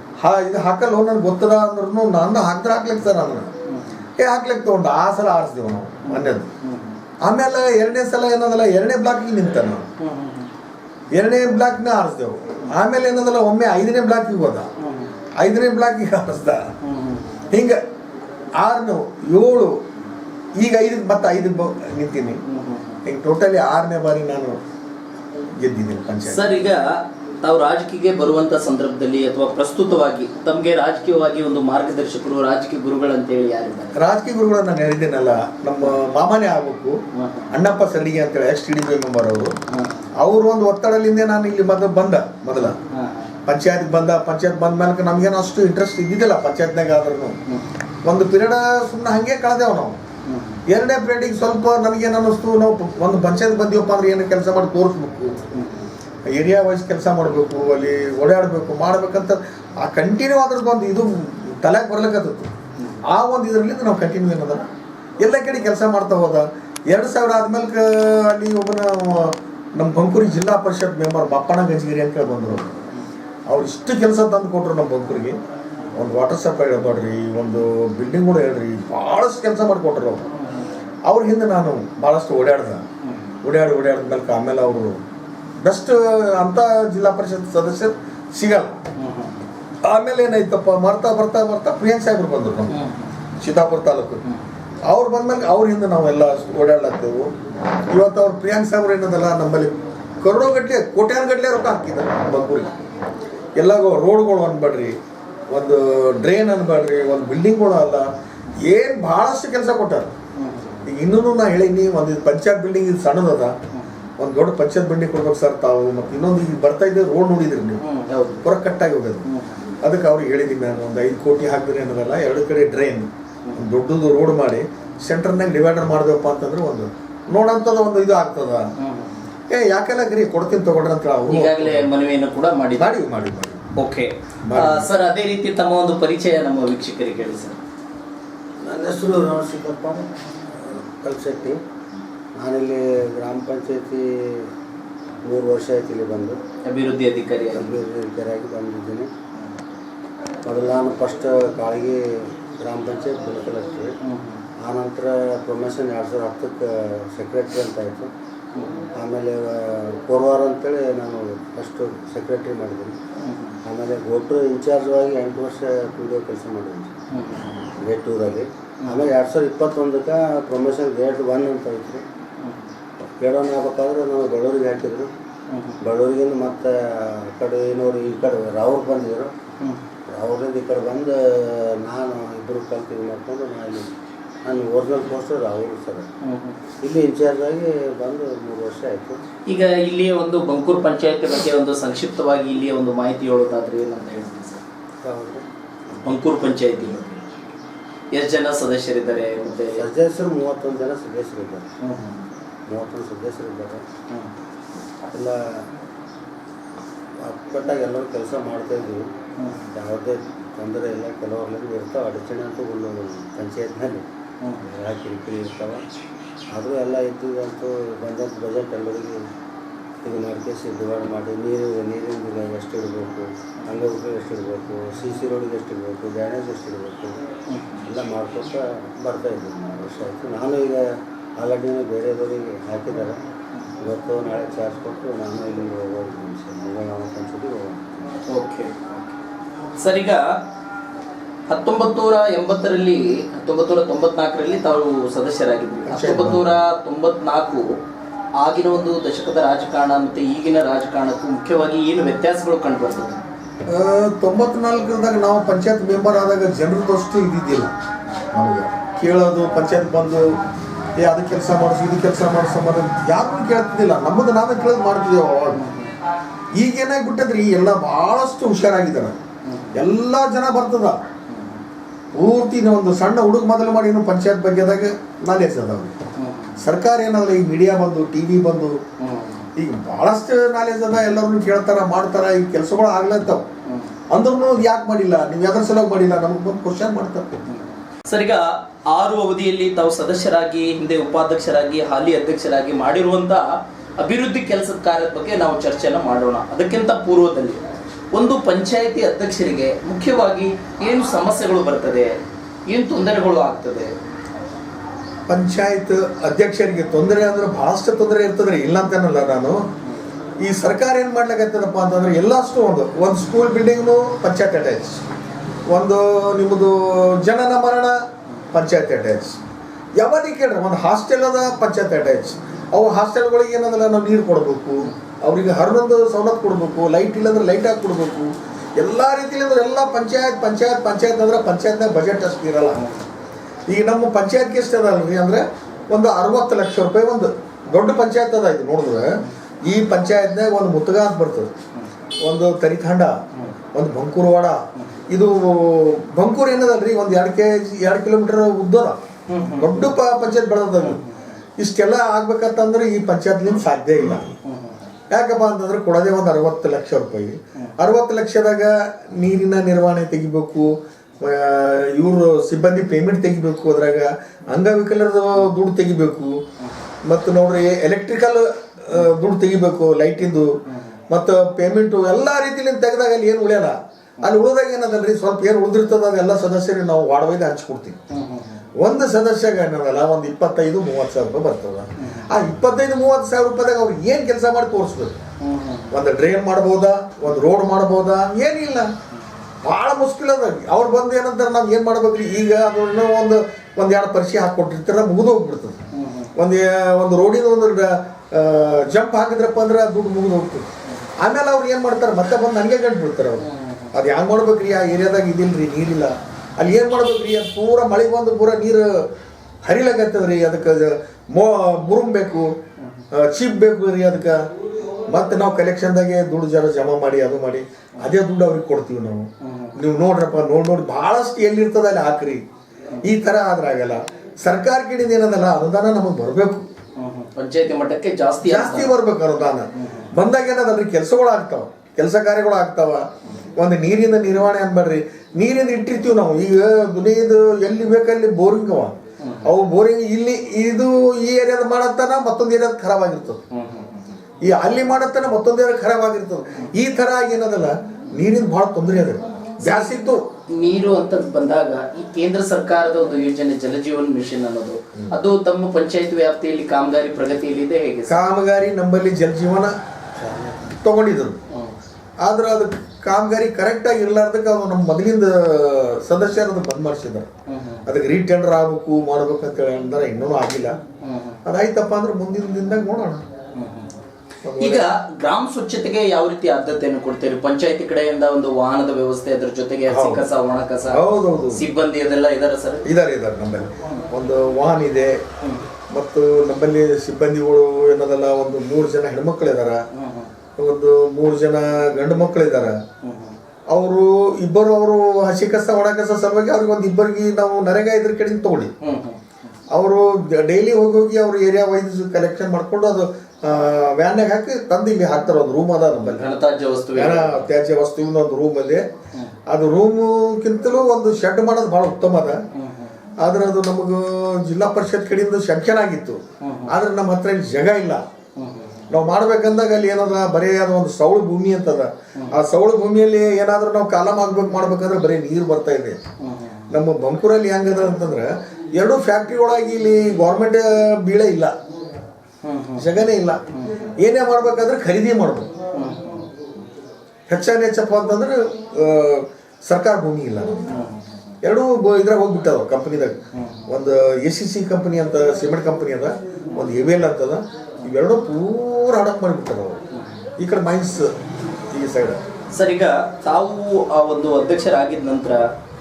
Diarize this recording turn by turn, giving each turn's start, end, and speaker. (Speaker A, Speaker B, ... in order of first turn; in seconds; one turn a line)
Speaker A: 0.2-3.5
Speaker B: 3.7-4.0
Speaker A: 4.2-6.5
Speaker B: 6.0-7.0
Speaker A: 7.2-9.9
Speaker B: 10.0-10.5
Speaker A: 11.1-14.7
Speaker B: 14.8-15.1
Speaker A: 15.4-16.7
Speaker B: 16.8-17.4
Speaker A: 17.5-17.8
Speaker A: 18.6-19.8
Speaker A: 20.6-22.4
Speaker B: 22.5-23.0
Speaker A: 23.0-24.6
Speaker A: 25.6-26.6
Speaker B: 26.3-34.0
Speaker A: 33.9-37.0
Speaker B: 37.1-37.5
Speaker A: 37.5-39.5
Speaker B: 39.7-40.0
Speaker A: 40.2-42.8
Speaker B: 42.8-43.4
Speaker A: 43.5-47.4
Speaker A: 48.0-50.0
Speaker B: 50.2-50.6
Speaker A: 50.7-55.4
Speaker B: 55.5-55.9
Speaker A: 56.3-62.5
Speaker A: 63.0-64.7
Speaker A: 65.2-72.8
Speaker A: 73.5-75.4
Speaker A: 75.9-80.2
Speaker A: 81.0-82.8
Speaker B: 83.0-83.3
Speaker A: 83.4-85.0
Speaker A: 85.6-88.8
Speaker B: 89.0-89.3
Speaker A: 89.8-92.8
Speaker B: 92.7-93.1
Speaker A: 93.4-94.2
Speaker A: 94.9-97.3
Speaker A: 97.9-102.7
Speaker A: 103.6-105.0
Speaker A: 105.5-110.1
Speaker B: 110.4-110.8
Speaker A: 110.8-113.6
Speaker A: 114.2-117.8
Speaker B: 117.8-118.4
Speaker A: 118.4-119.2
Speaker B: 119.3-119.6
Speaker A: 119.8-128.7
Speaker B: 128.8-129.2
Speaker A: 129.5-131.9
Speaker B: 131.3-132.9
Speaker A: 132.8-133.6
Speaker B: 133.8-137.6
Speaker A: 134.4-134.9
Speaker C: 138.6-140.1
Speaker C: 140.6-141.6
Speaker C: 142.3-144.5
Speaker C: 145.2-146.4
Speaker B: 146.6-147.7
Speaker C: 147.5-149.1
Speaker C: 150.4-153.9
Speaker B: 154.0-154.4
Speaker C: 154.6-158.1
Speaker B: 158.5-158.9
Speaker C: 158.9-162.9
Speaker B: 163.2-163.6
Speaker C: 163.6-167.0
Speaker B: 167.1-167.7
Speaker C: 167.8-172.0
Speaker B: 168.8-169.1
Speaker B: 172.4-172.7
Speaker C: 173.2-175.1
Speaker B: 175.5-175.8
Speaker C: 175.8-179.3
Speaker C: 180.1-183.9
Speaker C: 184.4-186.1
Speaker B: 186.2-186.6
Speaker C: 186.8-189.2
Speaker B: 189.5-194.6
Speaker C: 195.0-195.4
Speaker B: 196.0-197.2
Speaker B: 198.1-199.8
Speaker C: 199.7-201.7
Speaker B: 201.8-202.2
Speaker C: 202.7-203.8
Speaker C: 205.0-205.7
Speaker C: 207.2-209.1
Speaker B: 209.4-209.7
Speaker C: 209.7-214.0
Speaker C: 214.6-215.8
Speaker C: 216.5-219.3
Speaker C: 220.0-227.2
Speaker B: 227.5-227.8
Speaker C: 227.8-233.2
Speaker C: 233.8-238.1
Speaker B: 238.3-239.2
Speaker B: 239.8-240.4
Speaker B: 241.5-247.7
Speaker A: 245.8-246.6
Speaker B: 248.4-253.2
Speaker A: 253.7-257.7
Speaker A: 258.3-260.4
Speaker A: 260.9-265.6
Speaker B: 265.5-265.9
Speaker A: 266.6-269.2
Speaker B: 269.4-269.8
Speaker A: 269.7-271.0
Speaker B: 271.3-271.6
Speaker A: 272.1-276.0
Speaker B: 276.1-276.6
Speaker A: 276.6-278.8
Speaker B: 279.0-279.5
Speaker A: 279.6-283.5
Speaker B: 283.6-283.9
Speaker A: 284.1-287.4
Speaker B: 287.5-293.5
Speaker B: 294.0-297.6
Speaker B: 298.1-302.1
Speaker B: 302.7-303.9
Speaker A: 305.3-309.6
Speaker A: 310.4-315.0
Speaker A: 315.7-319.4
Speaker A: 320.0-332.8
Speaker B: 332.8-333.1
Speaker A: 333.7-341.5
Speaker A: 342.2-349.0
Speaker B: 349.3-349.9
Speaker A: 349.6-351.0
Speaker A: 351.6-354.3
Speaker B: 354.4-354.9
Speaker A: 355.1-366.4
Speaker A: 367.0-370.6
Speaker B: 370.7-370.9
Speaker A: 371.1-378.0
Speaker B: 378.1-378.6
Speaker A: 378.8-385.1
Speaker B: 382.0-382.3
Speaker B: 385.4-385.9
Speaker A: 385.9-388.9
Speaker A: 389.6-395.8
Speaker B: 395.9-396.3
Speaker A: 396.4-409.1
Speaker B: 403.4-403.9
Speaker A: 409.6-412.6
Speaker A: 413.1-414.5
Speaker A: 415.1-422.4
Speaker B: 419.4-419.8
Speaker A: 423.0-426.6
Speaker B: 427.0-428.9
Speaker A: 428.4-443.4
Speaker B: 429.8-430.1
Speaker B: 439.2-439.5
Speaker B: 443.5-444.0
Speaker A: 444.4-450.3
Speaker B: 449.6-449.9
Speaker B: 450.5-458.2
Speaker A: 458.1-459.7
Speaker A: 460.8-461.4
Speaker A: 462.2-467.3
Speaker B: 467.5-467.9
Speaker A: 467.9-470.8
Speaker B: 471.0-471.4
Speaker A: 471.4-473.2
Speaker B: 473.6-473.9
Speaker A: 474.4-474.9
Speaker B: 474.6-482.8
Speaker A: 479.9-480.2
Speaker A: 480.9-481.6
Speaker A: 482.8-485.2
Speaker A: 485.9-489.8
Speaker B: 489.9-490.3
Speaker A: 490.6-492.8
Speaker B: 493.0-493.4
Speaker A: 493.7-498.7
Speaker B: 498.8-499.2
Speaker A: 499.7-506.3
Speaker B: 506.1-507.4
Speaker A: 506.9-508.9
Speaker A: 509.5-512.4
Speaker B: 512.5-512.9
Speaker A: 513.2-518.0
Speaker B: 516.4-516.7
Speaker B: 518.4-518.9
Speaker A: 518.9-526.0
Speaker B: 526.2-526.7
Speaker A: 526.7-531.5
Speaker B: 532.4-532.8
Speaker A: 532.8-533.4
Speaker A: 534.0-535.5
Speaker B: 535.7-536.3
Speaker A: 537.3-540.6
Speaker B: 540.7-541.1
Speaker A: 541.4-549.8
Speaker B: 543.3-543.7
Speaker A: 550.4-551.1
Speaker A: 551.7-552.2
Speaker B: 552.5-555.4